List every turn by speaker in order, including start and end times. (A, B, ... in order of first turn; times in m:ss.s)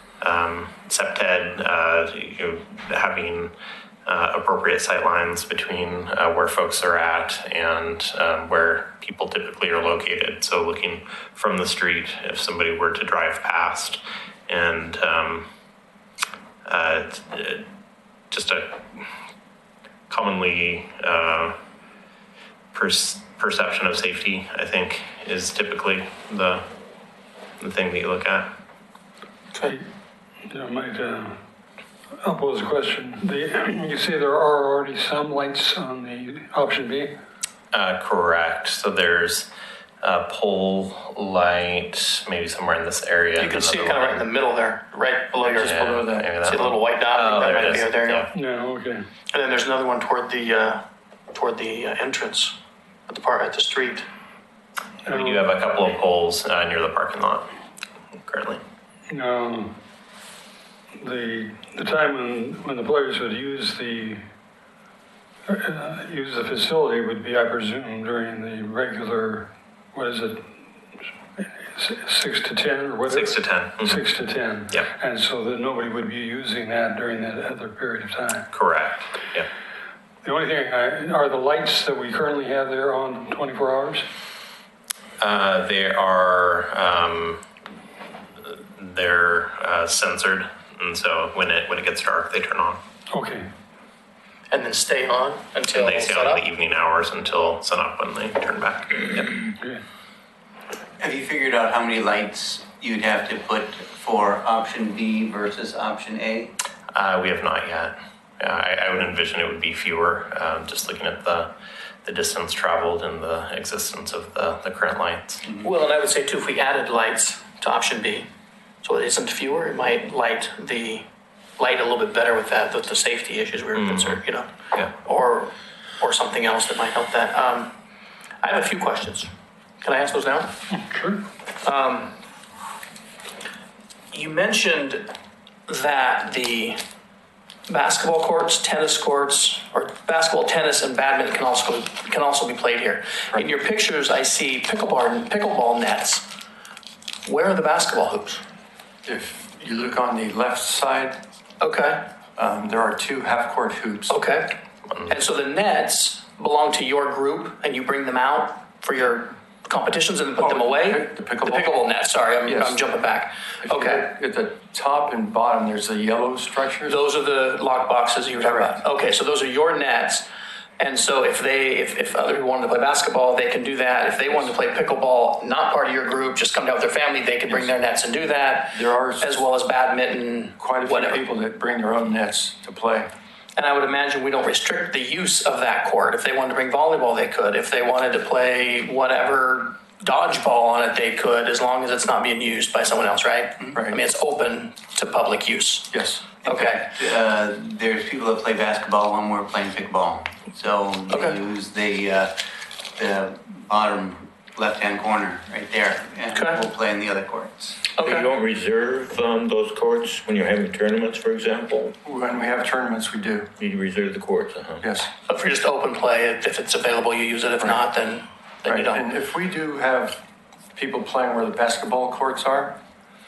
0:00.2-0:03.5 A
0:04.1-0:15.5 A
0:16.7-0:17.6 A
0:18.3-0:18.8 A
0:20.1-0:21.6 A
0:22.7-0:26.6 A
0:27.6-0:28.5 A
0:30.5-0:31.4 B
0:32.2-0:37.2 B
0:37.7-0:39.5 A
0:40.0-0:44.2 A
0:43.4-0:45.8 C
0:45.4-0:46.3 D
0:45.5-0:48.3 A
0:46.4-0:48.3 C
0:48.3-0:49.1 B
0:49.3-0:52.6 C
0:53.1-0:54.0 C
0:55.1-0:57.5 A
0:55.1-0:55.5 B
0:58.2-0:58.6 A
0:59.1-0:59.7 B
1:01.0-1:04.2 B
1:05.5-1:10.4 B
1:11.4-1:18.5 B
1:13.1-1:14.0 A
1:18.5-1:19.5 A
1:20.2-1:24.1 B
1:25.2-1:27.4 A
1:28.4-1:32.8 A
1:33.1-1:33.5 B
1:34.5-1:36.4 C
1:35.7-1:39.3 A
1:41.0-1:46.5 E
1:46.9-1:51.5 A
1:52.0-1:55.4 A
1:55.6-1:58.3 C
1:58.8-2:01.1 C
2:01.6-2:07.7 C
2:03.8-2:04.2 A
2:08.4-2:10.6 C
2:10.7-2:11.2 B
2:11.6-2:12.2 C
2:14.1-2:15.1 C
2:15.7-2:16.8 C
2:17.7-2:26.3 C
2:27.2-2:28.4 C
2:29.0-2:31.2 D
2:31.6-2:32.1 C
2:32.4-2:34.1 D
2:34.1-2:44.1 C
2:40.4-2:41.7 D
2:42.4-2:42.8 D
2:43.6-2:47.0 D
2:46.9-2:50.3 C
2:50.8-3:01.2 C
2:58.7-2:59.3 D
3:00.6-3:03.1 D
3:03.6-3:16.9 C
3:13.7-3:14.0 D
3:15.9-3:16.2 D
3:16.4-3:22.3 E
3:21.1-3:21.4 C
3:23.0-3:27.7 E
3:26.3-3:26.6 C
3:28.0-3:28.3 C
3:28.0-3:31.9 F
3:32.0-3:33.5 D
3:33.6-3:34.8 F
3:34.8-3:35.1 D
3:35.3-3:39.0 C
3:38.7-3:40.2 D
3:40.7-3:42.8 D